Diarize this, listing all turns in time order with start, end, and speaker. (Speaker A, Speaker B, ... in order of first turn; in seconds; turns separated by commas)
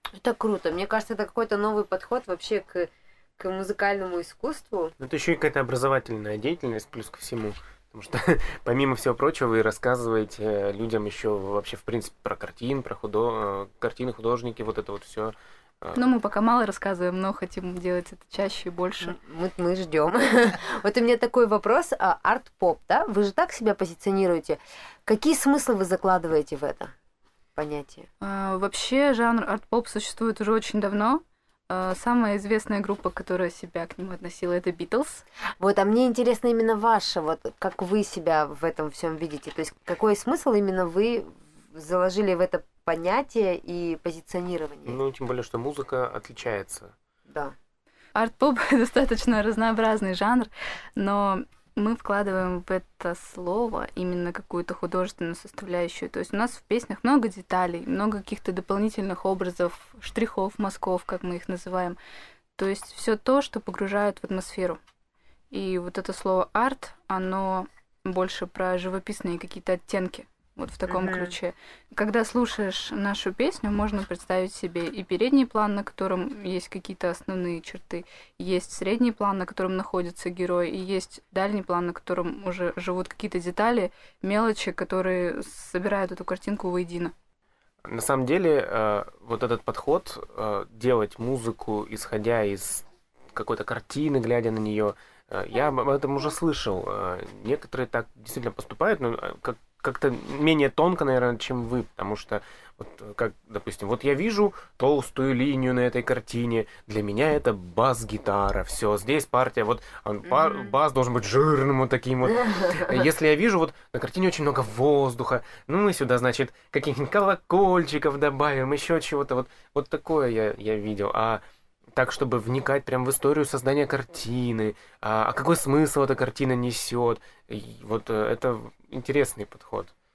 Speaker A: 0.1-4.9, Speaker B: 5.0-16.0, Speaker C: 15.9-19.1, Speaker A: 19.0-26.9, Speaker A: 27.6-28.1, Speaker C: 28.2-35.2, Speaker A: 35.6-45.0, Speaker B: 44.9-46.9, Speaker A: 47.3-47.5, Speaker C: 48.1-62.0, Speaker C: 62.6-64.8, Speaker C: 65.5-87.1, Speaker A: 70.9-71.3, Speaker B: 87.8-121.4, Speaker A: 110.3-110.7, Speaker B: 121.9-129.9